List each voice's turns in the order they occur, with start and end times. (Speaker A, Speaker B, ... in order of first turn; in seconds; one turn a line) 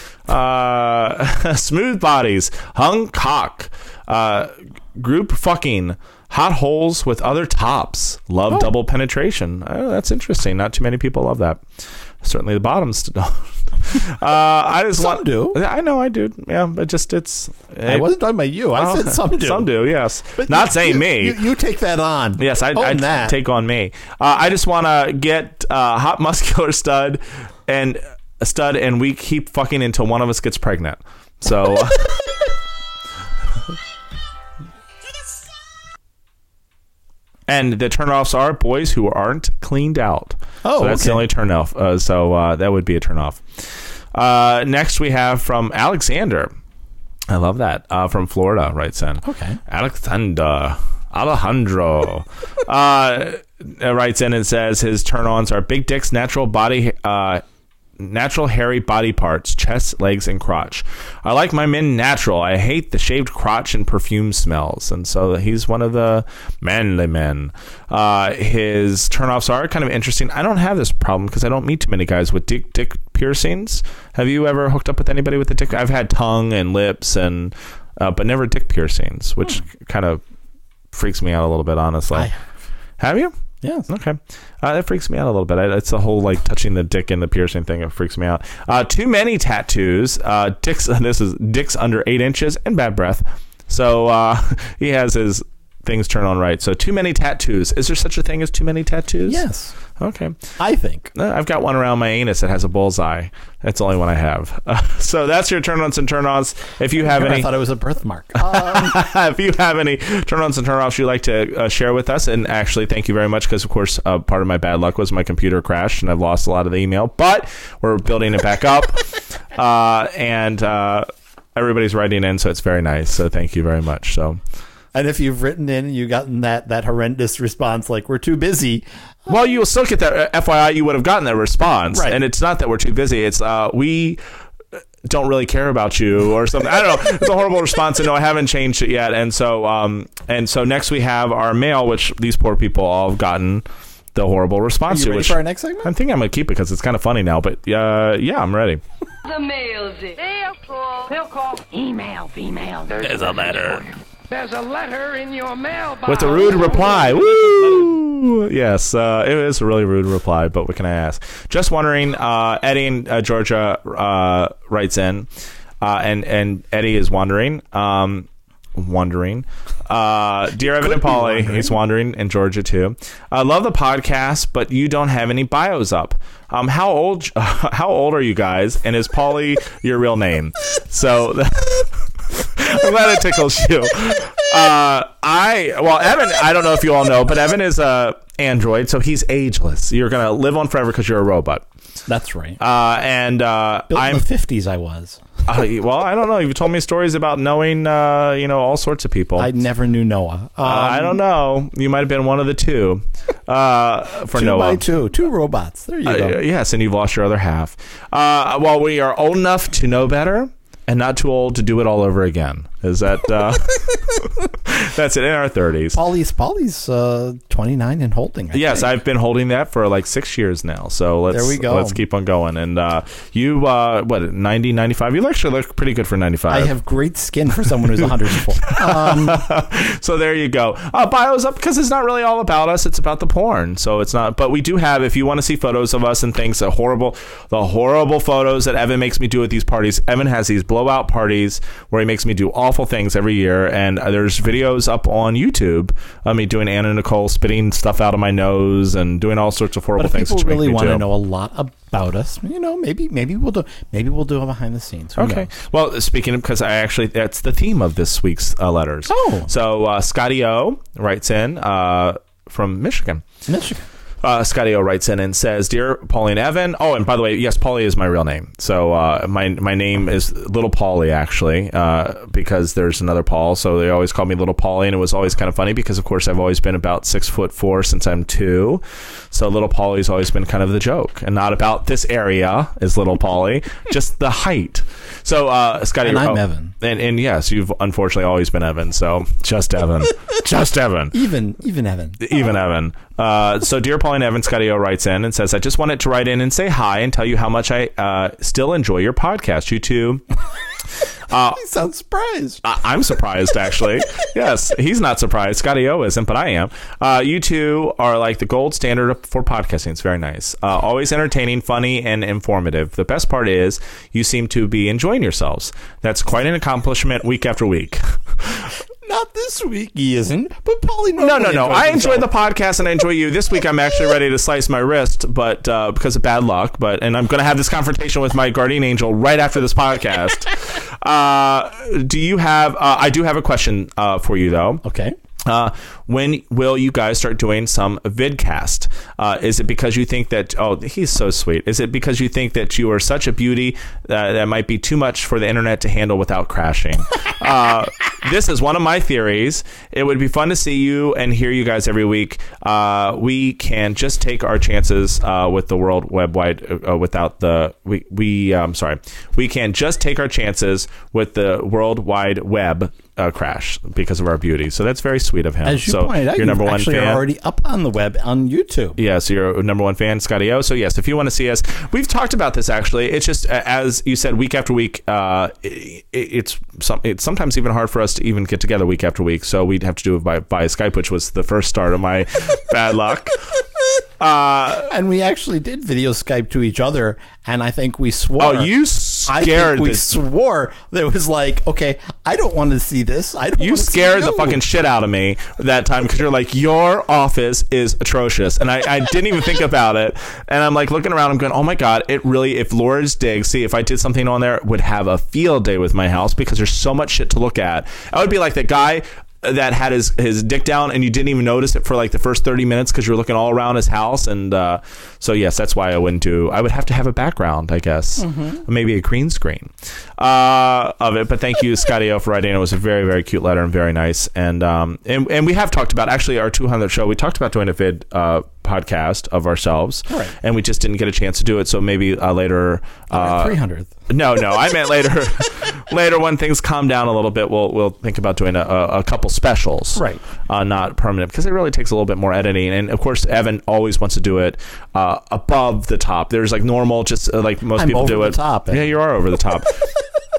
Speaker A: 0.3-11.7
Speaker A: 12.2-18.1
Speaker B: 14.9-15.6
Speaker B: 17.9-19.7
Speaker A: 18.7-21.4
Speaker B: 20.4-23.4
Speaker A: 22.4-32.3
Speaker A: 37.5-46.5
Speaker B: 40.6-41.3
Speaker A: 47.3-57.4
Speaker B: 49.2-49.6
Speaker A: 58.0-80.2
Speaker A: 80.9-82.3
Speaker B: 82.1-82.4
Speaker A: 83.0-83.3
Speaker B: 83.6-83.9
Speaker A: 83.9-99.4
Speaker B: 99.3-99.8
Speaker A: 100.0-100.5
Speaker B: 100.6-101.1
Speaker A: 101.1-107.5
Speaker B: 107.0-109.0
Speaker A: 108.4-124.4
Speaker B: 124.9-128.8
Speaker A: 129.3-134.2
Speaker B: 131.9-132.2
Speaker A: 135.0-148.8
Speaker B: 144.9-145.9
Speaker C: 149.3-153.1
Speaker A: 152.9-153.9
Speaker C: 154.3-156.2
Speaker A: 156.1-165.3
Speaker A: 165.8-191.7
Speaker B: 170.6-171.8
Speaker B: 192.1-192.6
Speaker A: 192.6-194.2
Speaker B: 193.9-195.2
Speaker A: 195.5-199.5
Speaker B: 199.4-201.2
Speaker A: 200.6-204.8
Speaker B: 204.3-206.4
Speaker A: 206.1-216.0
Speaker B: 215.9-218.9
Speaker A: 218.5-226.7
Speaker B: 221.3-222.0
Speaker B: 226.5-229.4
Speaker A: 228.0-251.1
Speaker B: 250.0-255.5
Speaker A: 255.2-263.2
Speaker B: 259.1-259.5
Speaker B: 263.5-263.9
Speaker A: 264.2-291.2
Speaker B: 286.0-286.7
Speaker B: 291.1-292.4
Speaker A: 292.2-300.2
Speaker A: 301.3-301.6
Speaker B: 301.5-302.6
Speaker A: 302.6-318.7
Speaker B: 319.0-322.3
Speaker A: 321.2-334.8
Speaker B: 334.8-335.1
Speaker A: 335.4-367.2
Speaker B: 365.6-369.0
Speaker A: 369.0-383.4
Speaker A: 384.2-384.9
Speaker B: 384.9-388.7
Speaker A: 388.4-390.1
Speaker B: 389.3-394.6
Speaker A: 393.6-433.6
Speaker B: 418.2-418.6
Speaker B: 430.1-430.3
Speaker B: 433.1-433.9
Speaker A: 434.1-449.9
Speaker B: 440.0-440.2
Speaker B: 447.8-448.9